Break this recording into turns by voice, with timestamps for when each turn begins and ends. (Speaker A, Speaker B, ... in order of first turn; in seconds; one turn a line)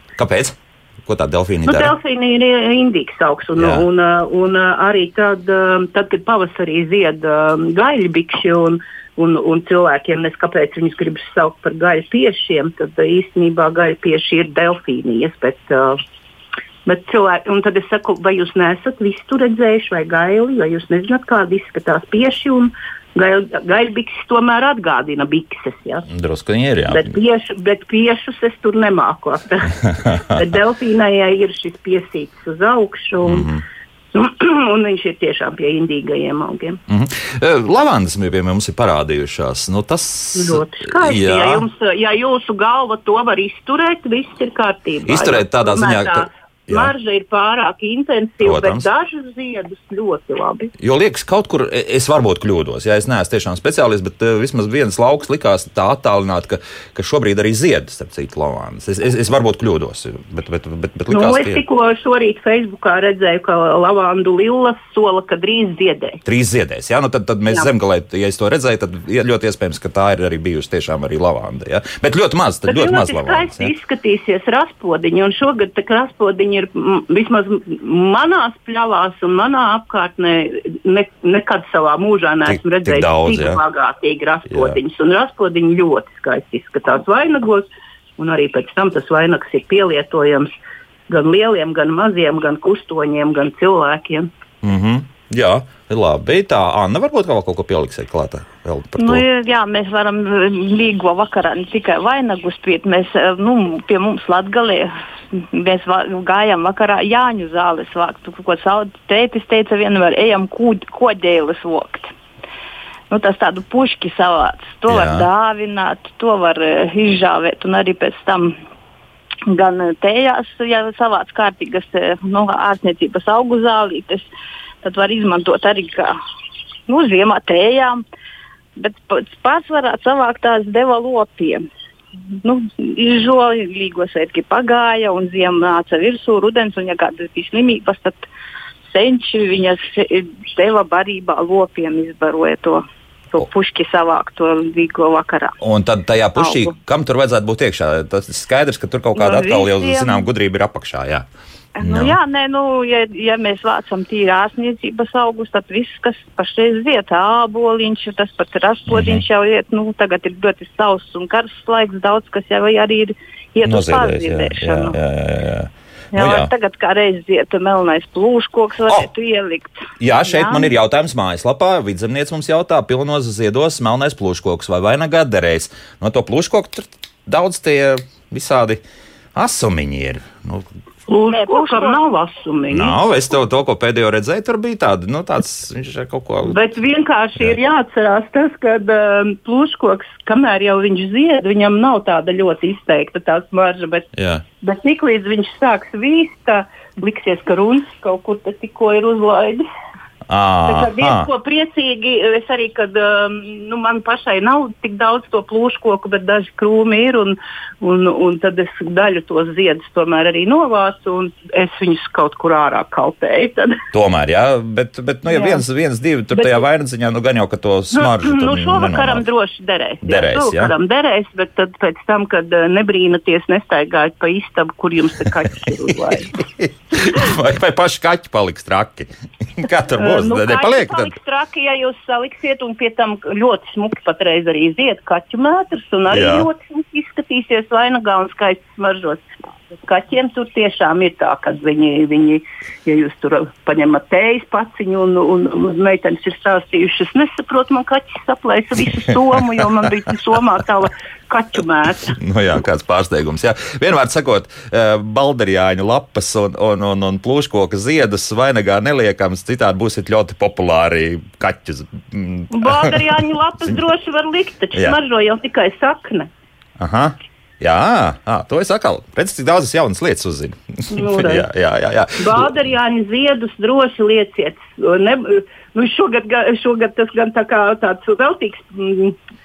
Speaker A: 0.2-1.9
Speaker B: 1.6-16.0
Speaker A: 3.6-3.8
Speaker B: 16.9-26.1
Speaker A: 26.1-27.2
Speaker B: 26.9-33.5
Speaker A: 33.2-33.6
Speaker B: 34.1-36.8
Speaker A: 36.9-41.6
Speaker B: 40.4-50.7
Speaker A: 45.1-46.9
Speaker A: 48.4-48.9
Speaker A: 50.8-61.6
Speaker B: 61.1-66.2
Speaker A: 66.2-73.7
Speaker B: 72.7-87.7
Speaker A: 82.5-83.6
Speaker A: 84.5-84.8
Speaker B: 88.2-90.5
Speaker B: 91.1-94.3
Speaker A: 94.6-99.2
Speaker C: 99.0-112.1
Speaker C: 113.1-118.5
Speaker A: 114.9-115.3
Speaker C: 119.5-124.3
Speaker C: 124.8-126.1
Speaker C: 126.9-128.0
Speaker C: 128.8-131.6
Speaker C: 132.4-138.2
Speaker C: 138.9-145.6
Speaker A: 145.6-151.3
Speaker C: 146.4-146.7
Speaker C: 149.1-150.2
Speaker C: 151.8-165.0
Speaker A: 151.8-152.2
Speaker A: 158.9-159.2
Speaker A: 163.6-166.5
Speaker C: 166.1-170.7
Speaker A: 170.0-178.8
Speaker A: 179.3-180.7
Speaker B: 181.1-182.9
Speaker C: 181.3-182.0
Speaker A: 182.7-186.6
Speaker B: 186.4-194.1
Speaker A: 194.2-194.4
Speaker B: 194.6-199.7
Speaker A: 200.3-201.3
Speaker B: 200.7-213.8
Speaker A: 213.9-219.2
Speaker B: 215.3-215.6
Speaker B: 217.9-226.4
Speaker A: 220.0-220.7
Speaker A: 226.1-231.1
Speaker B: 230.0-252.1
Speaker A: 236.1-236.5
Speaker A: 252.1-263.8
Speaker B: 262.5-266.3
Speaker A: 266.8-272.5
Speaker B: 270.9-271.4
Speaker B: 272.2-279.2